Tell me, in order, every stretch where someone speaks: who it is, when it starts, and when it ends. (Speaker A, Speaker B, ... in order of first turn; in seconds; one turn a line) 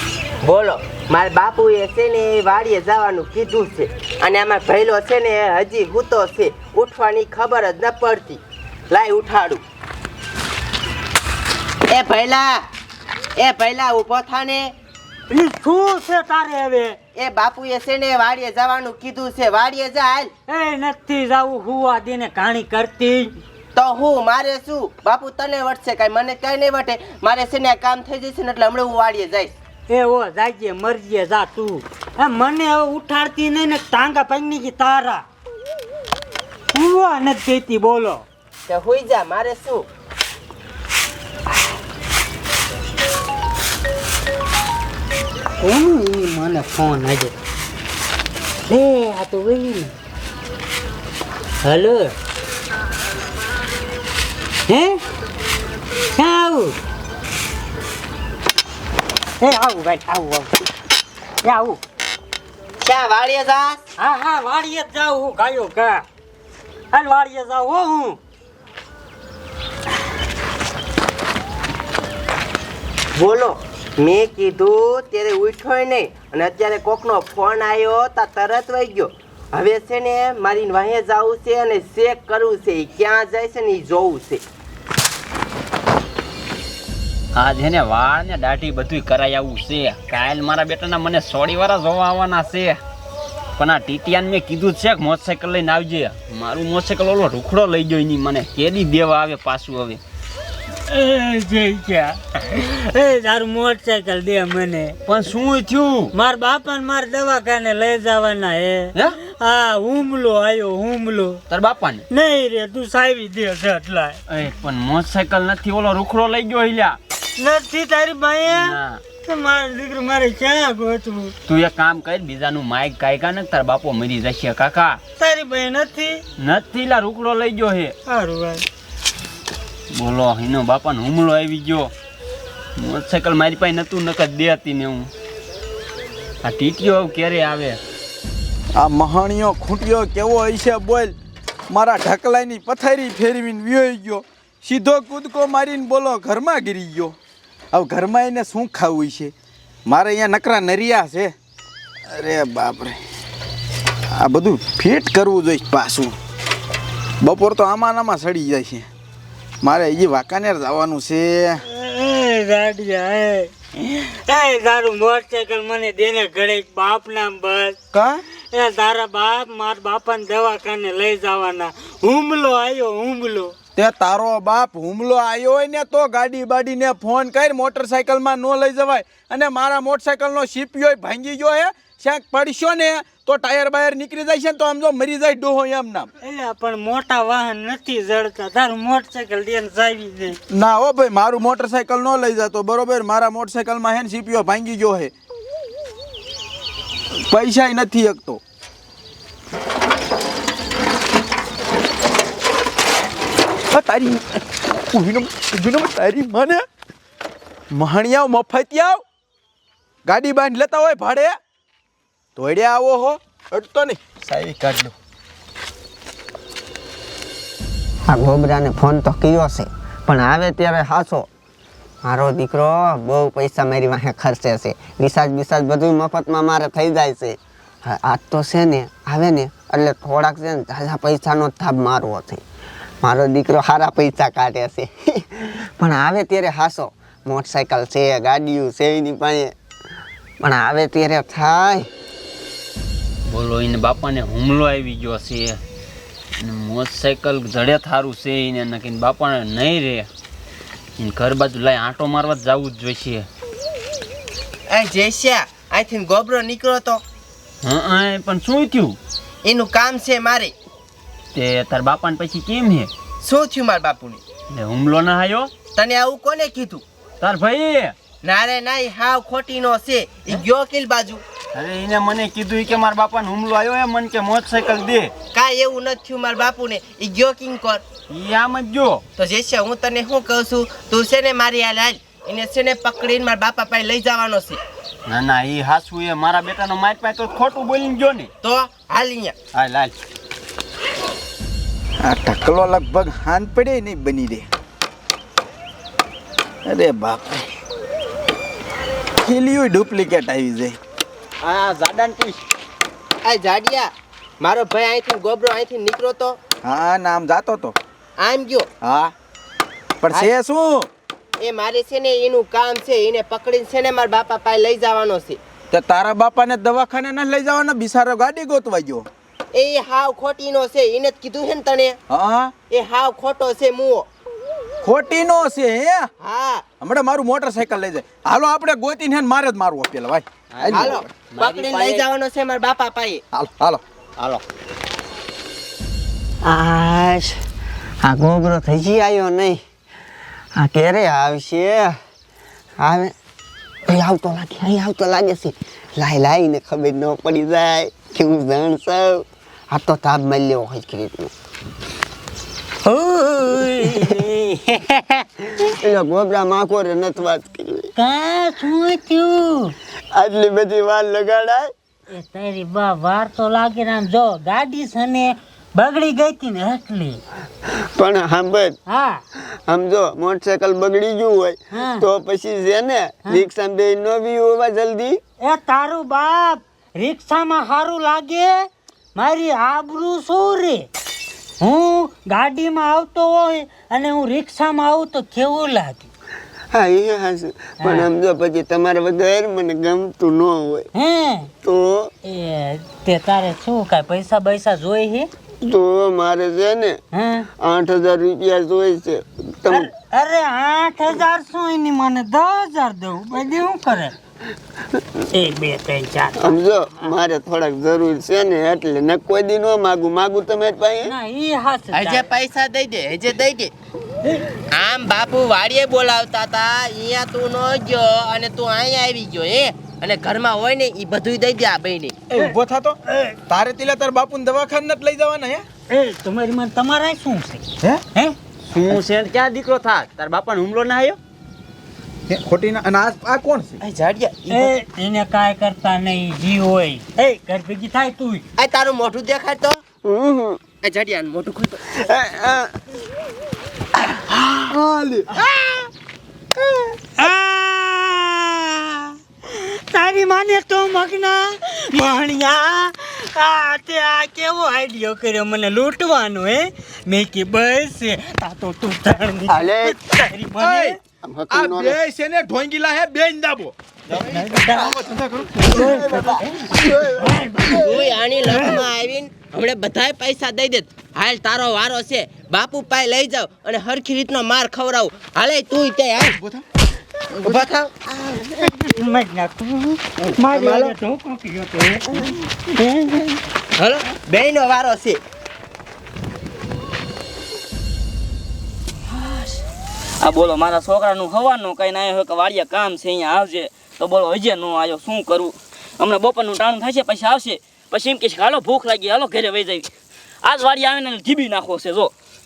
Speaker A: 0.4-9.6
Speaker A: 11.9-12.6
Speaker A: 13.4-14.7
Speaker B: 15.3-17.0
Speaker A: 17.1-20.3
Speaker B: 20.5-23.4
Speaker A: 23.7-29.5
Speaker B: 29.9-35.2
Speaker B: 36.7-38.2
Speaker A: 38.7-39.9
Speaker B: 45.6-47.3
Speaker B: 48.7-49.9
Speaker B: 51.6-52.1
Speaker B: 54.7-55.0
Speaker B: 56.1-56.8
Speaker B: 59.4-60.5
Speaker B: 61.4-61.8
Speaker A: 62.8-63.8
Speaker B: 64.0-66.0
Speaker B: 66.9-68.2
Speaker A: 73.1-84.4
Speaker C: 87.3-92.8
Speaker C: 93.6-100.0
Speaker B: 100.9-105.0
Speaker C: 105.0-106.1
Speaker B: 106.1-111.4
Speaker C: 111.5-112.0
Speaker B: 112.1-114.2
Speaker C: 114.3-117.0
Speaker B: 117.4-121.3
Speaker C: 118.5-119.0
Speaker C: 121.5-125.0
Speaker B: 125.2-126.2
Speaker C: 126.4-127.9
Speaker B: 128.1-128.6
Speaker C: 129.9-131.9
Speaker C: 132.8-135.1
Speaker C: 136.4-137.8
Speaker D: 138.8-141.1
Speaker D: 141.7-147.1
Speaker D: 147.7-149.3
Speaker D: 149.8-151.3
Speaker D: 152.1-153.0
Speaker D: 154.1-156.1
Speaker D: 157.2-158.9
Speaker D: 159.6-161.6
Speaker B: 161.7-167.8
Speaker D: 167.9-168.2
Speaker B: 168.5-173.5
Speaker D: 173.8-186.1
Speaker B: 186.2-190.4
Speaker D: 190.5-195.1
Speaker D: 197.3-198.4
Speaker D: 203.7-206.6
Speaker D: 207.7-209.0
Speaker D: 210.1-211.3
Speaker D: 212.3-214.9
Speaker E: 218.1-221.3
Speaker E: 222.0-232.4
Speaker E: 233.0-239.5
Speaker E: 240.4-241.9
Speaker C: 243.3-245.6
Speaker C: 246.4-250.1
Speaker C: 251.0-253.3
Speaker A: 254.7-257.0
Speaker C: 257.6-259.0
Speaker A: 259.4-260.5
Speaker C: 261.3-262.9
Speaker A: 263.2-264.2
Speaker C: 264.5-265.5
Speaker A: 265.7-266.8
Speaker C: 267.2-267.9
Speaker A: 268.2-271.2
Speaker C: 271.5-275.1
Speaker A: 275.3-277.8
Speaker C: 278.1-279.0
Speaker A: 279.2-284.6
Speaker C: 285.1-288.3
Speaker A: 288.4-289.3
Speaker C: 289.5-289.9
Speaker D: 292.0-294.5
Speaker D: 296.6-297.5
Speaker D: 299.2-300.8
Speaker C: 301.4-302.4
Speaker A: 303.2-306.4
Speaker D: 306.6-307.8
Speaker A: 308.2-308.7
Speaker D: 308.8-309.1
Speaker D: 310.0-310.9
Speaker A: 311.4-315.4
Speaker D: 315.7-319.1
Speaker A: 319.5-322.0
Speaker D: 322.1-322.5
Speaker A: 322.7-324.1
Speaker D: 324.8-326.1
Speaker A: 326.2-326.6
Speaker D: 326.8-331.1
Speaker C: 330.5-332.0
Speaker A: 330.7-333.2
Speaker D: 333.3-333.8
Speaker E: 336.4-337.4
Speaker E: 338.0-339.6
Speaker E: 340.5-342.0
Speaker E: 342.8-343.1
Speaker E: 343.9-351.3
Speaker B: 352.8-355.2
Speaker E: 355.6-357.9
Speaker B: 357.9-359.7
Speaker E: 360.1-361.7
Speaker B: 362.1-367.2
Speaker E: 367.8-368.8
Speaker B: 368.9-369.2
Speaker E: 369.4-375.2
Speaker B: 371.7-372.0
Speaker B: 375.4-380.9
Speaker B: 381.6-386.1
Speaker E: 386.7-390.9
Speaker B: 387.8-388.1
Speaker B: 390.9-391.5
Speaker E: 391.6-392.1
Speaker B: 392.2-395.3
Speaker E: 395.6-397.0
Speaker B: 397.1-397.5
Speaker E: 397.6-399.9
Speaker B: 399.7-404.1
Speaker B: 405.3-406.6
Speaker E: 406.4-411.1
Speaker B: 411.0-412.2
Speaker A: 411.9-413.7
Speaker A: 414.7-422.1
Speaker D: 422.3-425.6
Speaker B: 425.9-428.4
Speaker C: 428.7-431.2
Speaker D: 432.3-433.8
Speaker A: 433.8-434.7
Speaker B: 434.5-438.4
Speaker A: 438.6-439.8
Speaker E: 440.0-440.6
Speaker A: 440.8-442.0
Speaker E: 442.0-442.7
Speaker E: 444.7-445.3
Speaker A: 445.3-445.9
Speaker B: 447.2-461.0
Speaker E: 459.5-460.0
Speaker D: 460.6-461.0
Speaker E: 461.2-462.0
Speaker D: 461.5-466.0
Speaker B: 464.1-464.9
Speaker B: 465.6-467.9
Speaker E: 465.7-468.0
Speaker A: 467.7-476.4
Speaker A: 477.4-477.9
Speaker B: 478.3-483.2
Speaker A: 480.4-480.9
Speaker A: 483.8-485.2
Speaker F: 489.1-489.6
Speaker F: 490.2-499.9
Speaker F: 500.4-502.1